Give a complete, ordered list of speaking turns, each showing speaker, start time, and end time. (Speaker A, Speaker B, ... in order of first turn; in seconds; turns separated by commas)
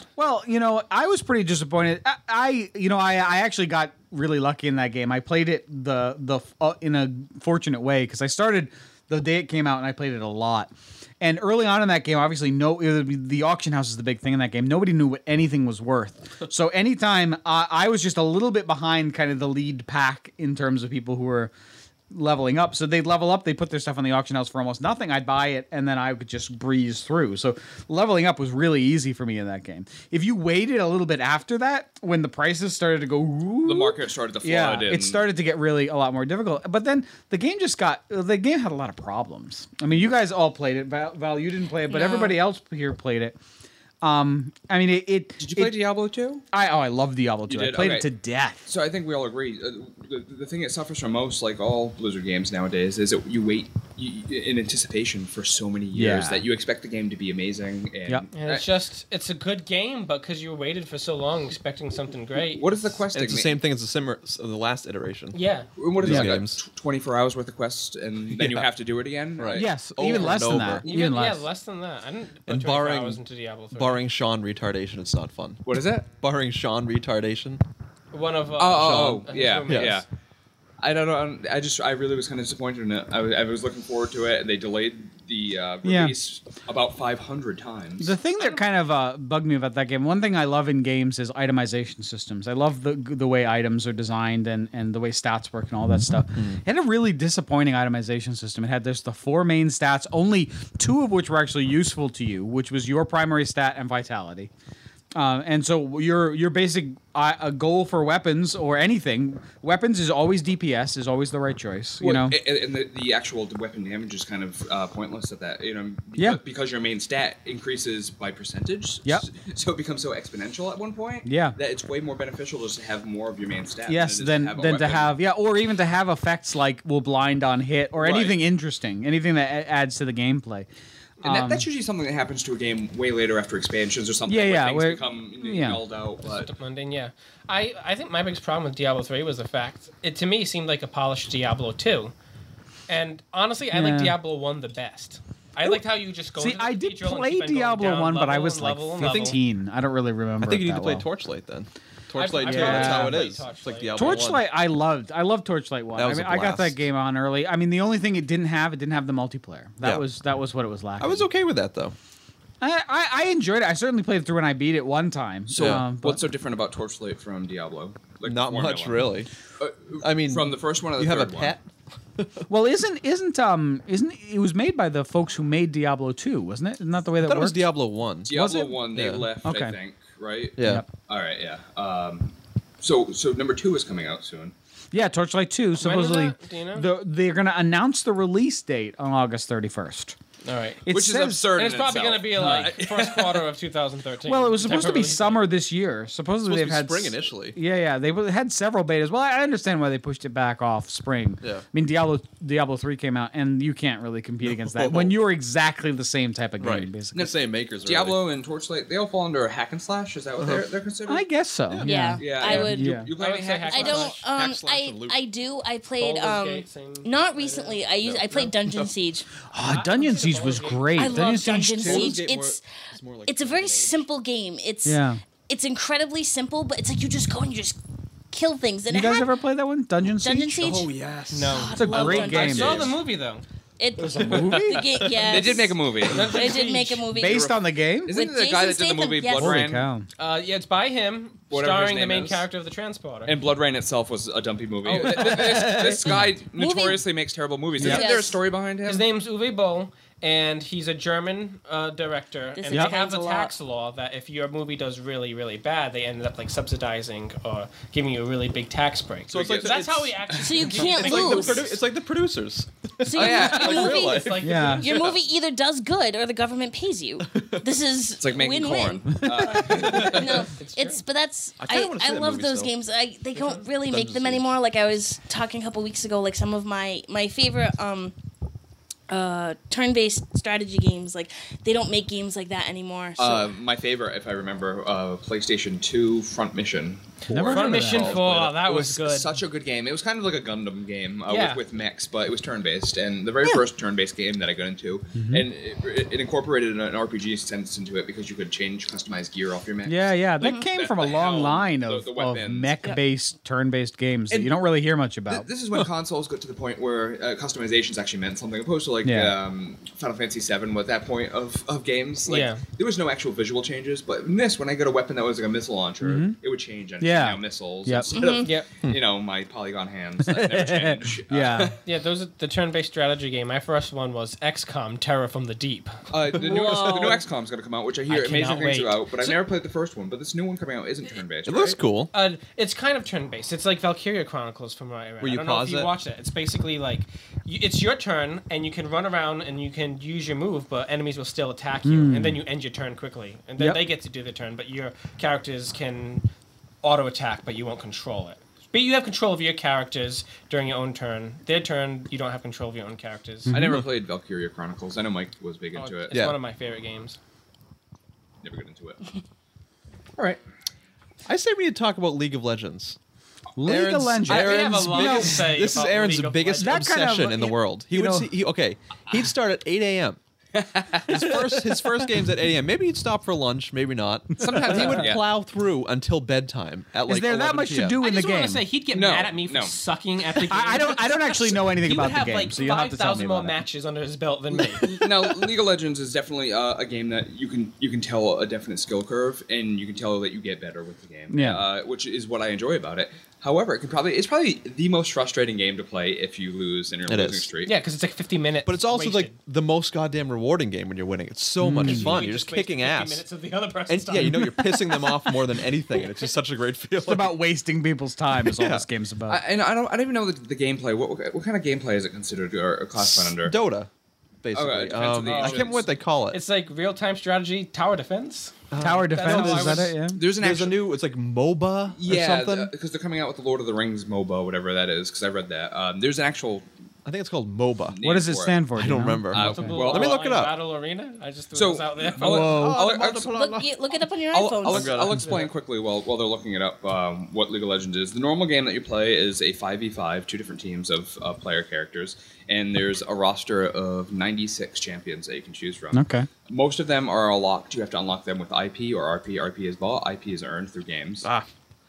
Speaker A: 0.2-21.5, Speaker A: 22.1-43.4, Speaker B: 33.6-35.2, Speaker C: 41.9-42.4, Speaker A: 44.0-45.7, Speaker B: 45.4-46.4, Speaker A: 46.5-48.7, Speaker B: 47.5-48.1, Speaker B: 48.7-58.7, Speaker A: 55.9-56.5, Speaker D: 58.3-62.7, Speaker B: 62.5-63.6, Speaker E: 63.1-65.4, Speaker D: 65.3-65.7, Speaker B: 65.8-70.3, Speaker E: 66.0-66.6, Speaker A: 66.1-66.4, Speaker E: 68.3-68.7, Speaker E: 69.4-70.9, Speaker A: 69.5-71.5, Speaker D: 70.8-74.0, Speaker E: 72.5-75.6, Speaker B: 75.7-76.1, Speaker E: 76.2-77.6, Speaker D: 78.1-80.0, Speaker B: 78.6-80.1, Speaker E: 78.8-80.0, Speaker B: 80.8-88.2, Speaker A: 85.8-86.2, Speaker A: 88.0-104.5, Speaker E: 96.4-96.6, Speaker A: 105.2-112.4, Speaker B: 112.0-125.2, Speaker A: 121.2-121.6, Speaker A: 123.9-130.7, Speaker B: 128.0-128.4, Speaker A: 131.2-131.7, Speaker B: 131.2-136.5, Speaker A: 134.3-135.8, Speaker D: 136.2-142.1, Speaker D: 142.9-149.4, Speaker A: 143.7-144.2, Speaker A: 146.4-151.1, Speaker E: 149.0-149.4, Speaker E: 150.4-154.4, Speaker D: 152.2-154.3, Speaker A: 152.4-153.3, Speaker A: 153.9-161.3, Speaker E: 155.9-156.8, Speaker E: 161.0-161.9, Speaker A: 162.6-166.2, Speaker B: 165.5-171.6, Speaker E: 165.6-165.8, Speaker E: 168.2-169.3, Speaker E: 170.0-171.7, Speaker E: 172.2-172.5, Speaker A: 172.5-177.7, Speaker E: 177.2-179.3, Speaker B: 178.3-184.5, Speaker A: 179.4-179.8, Speaker E: 180.6-180.8, Speaker A: 180.6-180.9, Speaker A: 184.9-190.2, Speaker D: 185.8-186.9, Speaker D: 190.4-190.9, Speaker A: 190.9-191.4, Speaker B: 190.9-193.5, Speaker D: 191.5-195.5, Speaker A: 192.4-192.7, Speaker A: 194.3-207.3, Speaker E: 196.4-197.6, Speaker E: 204.4-205.2, Speaker E: 206.6-208.2, Speaker B: 207.8-211.2, Speaker E: 210.4-210.7, Speaker A: 211.1-213.1, Speaker E: 211.7-211.9, Speaker C: 211.8-213.0, Speaker B: 212.2-214.1, Speaker D: 212.4-214.2, Speaker C: 213.7-219.3, Speaker E: 213.8-215.2, Speaker D: 216.0-218.6, Speaker E: 218.1-218.7, Speaker A: 219.5-222.2, Speaker D: 219.6-221.3, Speaker C: 220.9-222.6, Speaker E: 221.8-224.0, Speaker C: 223.3-227.8, Speaker A: 224.8-225.2, Speaker C: 228.3-229.3, Speaker A: 228.9-230.8, Speaker C: 230.2-230.9, Speaker E: 230.6-233.0, Speaker D: 231.3-233.4, Speaker C: 231.4-232.9, Speaker A: 231.8-232.9, Speaker C: 233.8-239.7, Speaker A: 234.0-234.9, Speaker E: 235.0-235.5, Speaker B: 235.2-236.4, Speaker D: 236.0-237.1, Speaker A: 237.1-238.1, Speaker B: 238.1-239.9, Speaker A: 239.4-240.1, Speaker D: 240.2-243.4, Speaker B: 241.5-242.4, Speaker B: 243.3-249.1, Speaker A: 244.9-246.2, Speaker C: 245.3-247.0, Speaker A: 247.8-248.1, Speaker C: 247.8-248.4, Speaker D: 248.8-261.8, Speaker C: 252.6-253.5, Speaker E: 259.3-265.2, Speaker C: 260.4-261.7, Speaker C: 263.0-278.1, Speaker B: 263.1-264.0, Speaker D: 263.8-264.8, Speaker A: 264.4-264.9, Speaker E: 267.3-267.7, Speaker B: 268.2-270.5, Speaker E: 269.6-270.2, Speaker D: 270.0-271.0, Speaker E: 271.6-272.7, Speaker D: 273.4-273.6, Speaker E: 273.9-274.5, Speaker C: 279.1-283.5, Speaker B: 283.2-302.8, Speaker A: 287.3-288.2, Speaker D: 287.5-289.3, Speaker D: 291.3-291.6, Speaker A: 295.1-295.5, Speaker A: 299.9-305.5, Speaker B: 304.3-304.6, Speaker B: 305.3-321.8, Speaker A: 309.1-309.4, Speaker D: 312.3-312.6, Speaker A: 316.0-316.4, Speaker A: 317.0-318.1, Speaker C: 318.1-318.5, Speaker D: 318.4-318.7, Speaker A: 320.2-321.7, Speaker D: 321.9-326.0, Speaker B: 326.1-331.8, Speaker E: 326.3-327.1, Speaker D: 326.6-326.9, Speaker D: 328.1-329.4, Speaker E: 331.5-332.1, Speaker D: 332.1-346.3, Speaker E: 335.2-335.9, Speaker A: 341.9-342.4, Speaker A: 343.6-343.8, Speaker D: 346.8-353.5, Speaker A: 353.5-353.8, Speaker B: 353.5-356.1, Speaker D: 355.8-357.2, Speaker E: 356.1-356.4, Speaker B: 358.4-359.0, Speaker E: 361.3-363.0, Speaker A: 363.6-365.5, Speaker E: 363.6-370.2, Speaker D: 364.3-366.9, Speaker A: 366.6-368.3, Speaker B: 370.5-371.8, Speaker E: 371.1-378.0, Speaker B: 374.4-375.3, Speaker A: 374.5-375.1, Speaker A: 377.1-378.7, Speaker D: 378.0-385.1, Speaker B: 378.9-379.8, Speaker A: 380.5-383.6, Speaker B: 384.8-397.7, Speaker A: 391.3-391.6, Speaker E: 397.1-397.5, Speaker D: 397.6-399.4, Speaker E: 398.6-403.3, Speaker A: 401.6-402.2, Speaker D: 401.8-405.3, Speaker E: 403.9-407.4, Speaker A: 404.2-404.5, Speaker A: 407.0-409.4, Speaker E: 408.4-408.9, Speaker B: 409.3-413.6, Speaker E: 413.0-413.9, Speaker E: 414.4-416.4, Speaker B: 414.5-415.9, Speaker D: 415.2-419.9, Speaker E: 418.7-422.7, Speaker A: 418.8-420.2, Speaker B: 420.1-420.8, Speaker B: 421.9-426.7, Speaker E: 427.1-428.0, Speaker B: 427.9-428.6, Speaker A: 428.0-429.7, Speaker E: 428.8-430.6, Speaker B: 429.3-430.2, Speaker D: 429.4-432.6, Speaker B: 431.5-433.3, Speaker E: 432.2-433.7, Speaker A: 432.2-432.8, Speaker C: 433.3-435.0, Speaker B: 434.3-451.3, Speaker E: 434.7-435.5, Speaker D: 435.2-435.5, Speaker A: 445.9-446.3